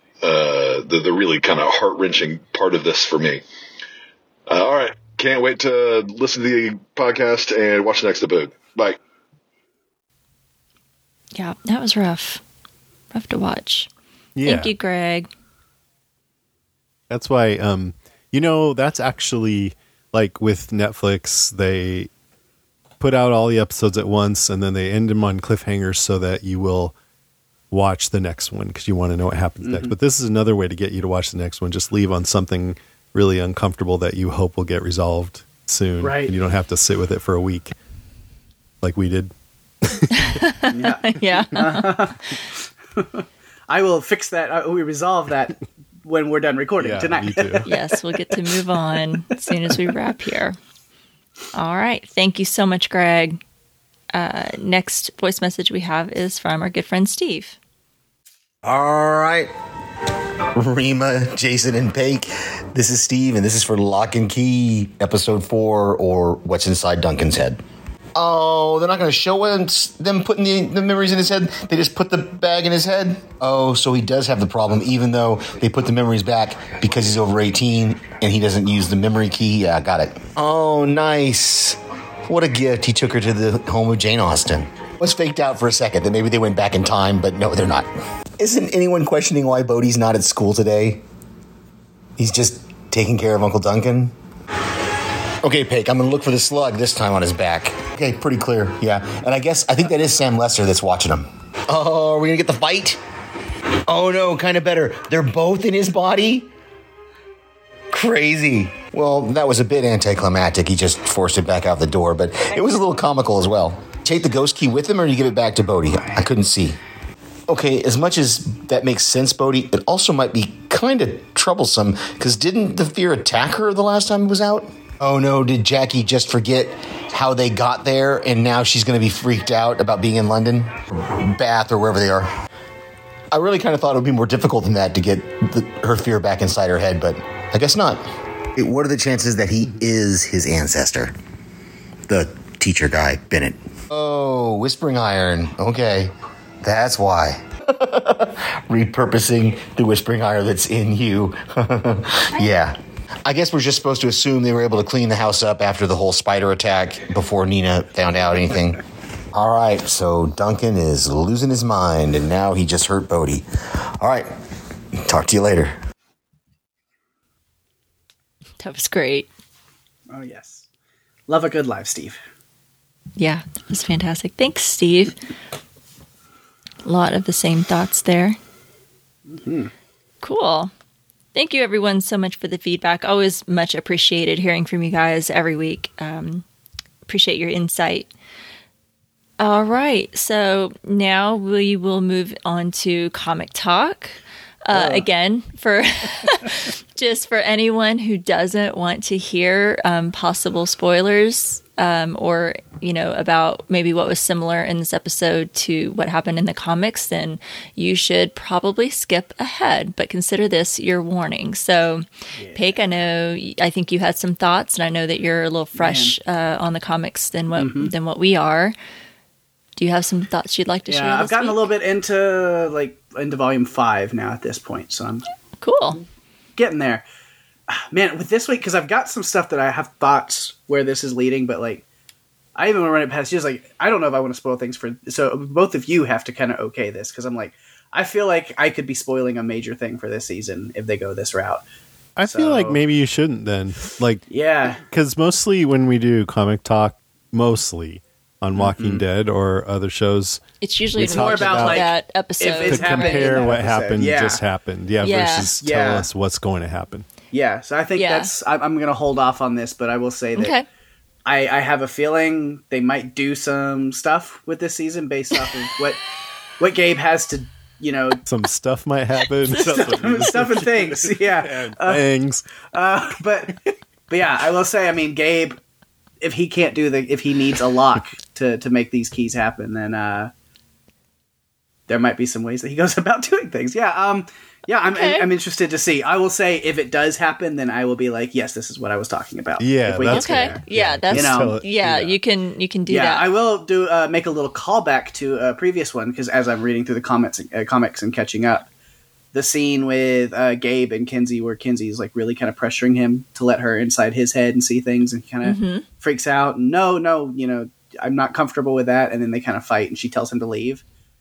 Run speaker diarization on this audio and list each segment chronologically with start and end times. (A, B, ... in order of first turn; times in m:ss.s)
0:00.2-0:03.4 A
0:04.5-0:09.0 A
0:11.4-0:12.4 B
0:13.1-0:13.9 B
0:14.4-0:14.7 C
0:14.4-0:15.3 B
0:17.1-0:22.1 C
0:23.0-0:27.0 C
0:27.7-0:37.7 C
0:29.6-0:29.9 D
0:36.0-0:36.3 D
0:38.8-0:39.3 C
0:39.8-0:40.3 C
0:40.1-0:41.9 B
0:40.7-0:42.4 D
0:43.0-0:48.4 D
0:46.8-0:47.7 C
0:47.7-0:50.6 B
0:51.5-0:53.4 B
0:54.1-0:57.6 B
0:58.6-0:59.5 E
1:00.6-1:07.6 E
1:08.2-1:31.0 E
1:32.2-1:34.1 E
1:35.4-1:43.0 E
1:43.9-1:46.5 E
1:47.9-1:56.8 E
1:57.5-2:12.3 E
2:13.3-2:21.2 E
2:22.1-2:43.4 E
2:44.0-2:44.3 E
2:45.0-2:45.8 E
2:48.6-2:49.3 B
2:50.1-2:50.7 D
2:51.3-2:52.2 D
2:53.2-2:55.2 B
2:56.9-2:58.4 B
2:59.3-2:59.7 D
3:00.2-3:00.7 B
3:01.3-3:06.4 B
3:07.1-3:08.1 B
3:09.4-3:38.8 B
3:14.7-3:15.0 D
3:32.4-3:32.7 D
3:35.8-3:36.2 D
3:37.6-3:37.9 D
3:39.8-3:41.7 B
3:40.9-3:45.2 D
3:45.6-3:46.0 B
3:46.6-3:47.0 D
3:47.7-3:51.8 D
3:52.6-4:01.6 D
4:02.2-4:04.2 C
4:02.3-4:02.8 D
4:04.3-4:04.8 D
4:04.8-4:10.4 C
4:08.6-4:09.0 D
4:10.6-4:13.5 B
4:10.9-4:11.9 C
4:11.0-4:14.4 D
4:12.7-4:17.1 C
4:15.0-4:15.6 B
4:15.6-4:16.1 D
4:17.3-4:20.5 D
4:18.0-4:18.3 B
4:20.4-4:20.6 B
4:21.3-4:26.0 D
4:26.6-4:28.2 D
4:28.3-4:32.5 C
4:29.5-4:32.0 D
4:32.7-4:35.6 D
4:36.2-4:40.3 D
4:41.9-4:50.6 D
4:44.8-4:45.3 B
4:49.6-4:52.2 C
4:50.1-4:53.3 B
4:51.1-4:51.6 D
4:52.9-4:58.7 D
4:59.3-5:10.8 D
5:05.4-5:05.8 B